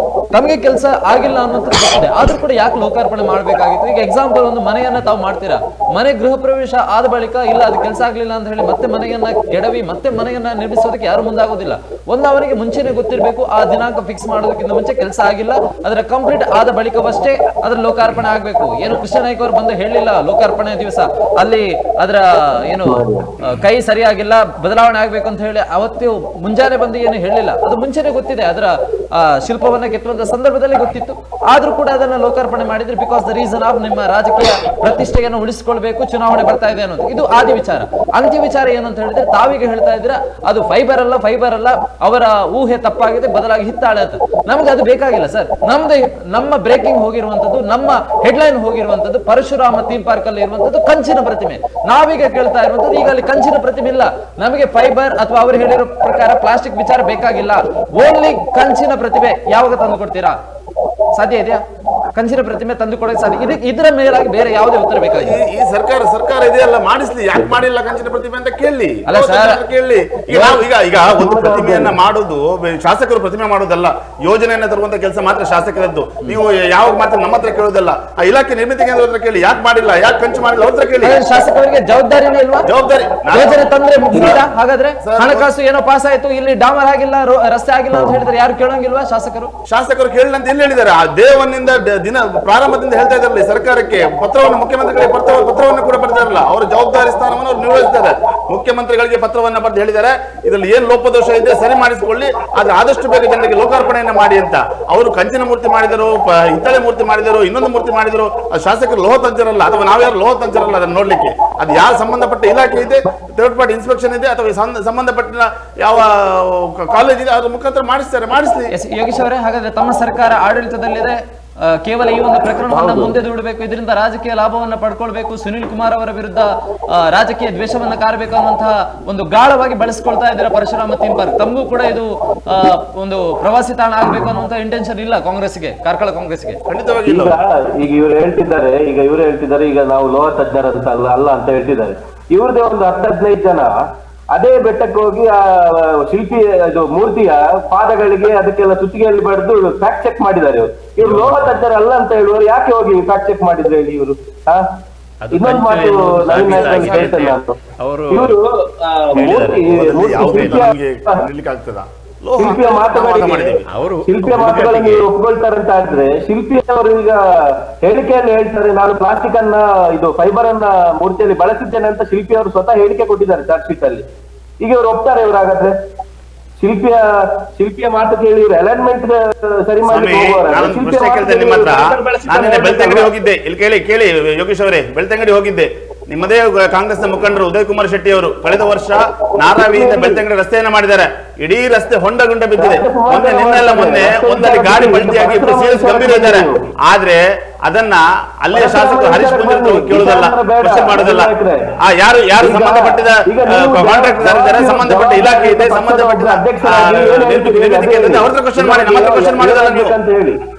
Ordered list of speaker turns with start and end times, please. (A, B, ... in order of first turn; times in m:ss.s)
0:00.3-1:00.4 A
0:22.8-0:23.3 B
1:01.1-1:01.6 A
1:02.1-1:05.4 A
1:05.2-1:21.4 C
1:09.1-1:09.6 A
1:10.3-1:10.6 A
1:11.2-1:12.0 B
1:21.0-1:22.7 A
1:22.6-1:24.4 C
1:23.3-1:29.5 A
1:25.0-1:25.5 C
1:27.9-1:28.2 B
1:29.7-1:58.7 C
1:58.7-2:16.6 A
2:02.7-2:03.1 B
2:16.7-2:17.4 C
2:17.0-2:23.7 B
2:24.3-2:34.6 B
2:35.2-2:38.4 D
2:35.3-2:37.6 B
2:38.1-2:41.2 B
2:39.1-2:39.8 D
2:39.5-2:43.6 C
2:42.4-2:54.0 B
2:43.7-2:45.0 D
2:54.6-2:55.7 B
2:56.6-3:03.1 B
2:59.8-3:29.9 C
3:09.5-3:10.2 B
3:12.6-3:16.7 B
3:18.5-3:21.7 B
3:22.4-3:30.4 B